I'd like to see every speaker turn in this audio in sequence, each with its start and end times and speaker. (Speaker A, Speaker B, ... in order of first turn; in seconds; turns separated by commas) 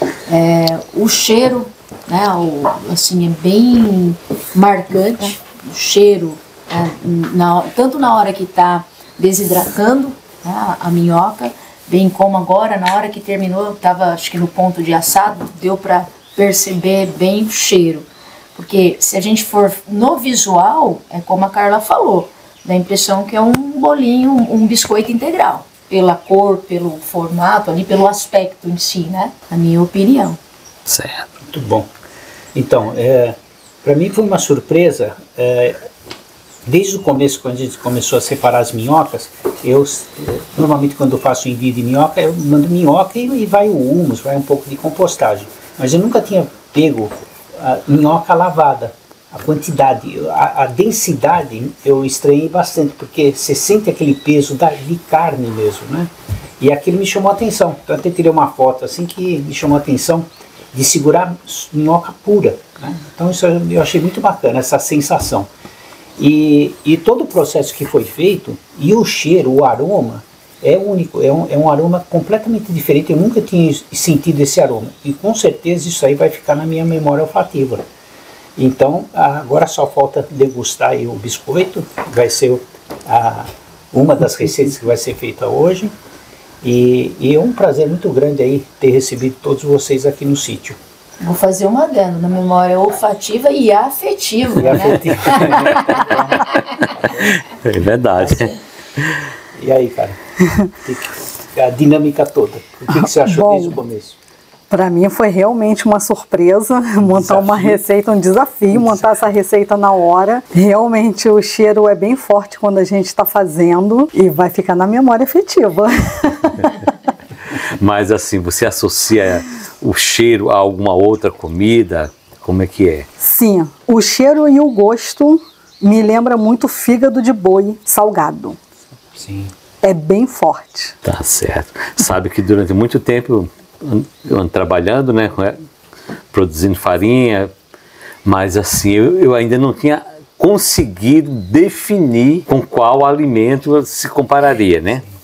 Speaker A: 0.3-30.4, Speaker B: 30.9-31.3, Speaker C: 31.5-31.9, Speaker C: 32.5-35.8, Speaker C: 36.7-65.5, Speaker C: 66.2-77.8, Speaker C: 78.6-85.9, Speaker C: 86.6-90.8, Speaker A: 91.2-96.7, Speaker C: 94.6-95.9, Speaker B: 97.5-99.2, Speaker C: 99.6-100.2, Speaker C: 100.8-104.2, Speaker D: 102.9-103.8, Speaker D: 104.7-116.7, Speaker C: 107.0-107.8, Speaker B: 117.8-123.1, Speaker D: 123.2-128.6, Speaker C: 129.2-129.5, Speaker D: 129.8-130.9, Speaker B: 131.0-135.6, Speaker B: 136.3-137.5, Speaker B: 138.2-145.0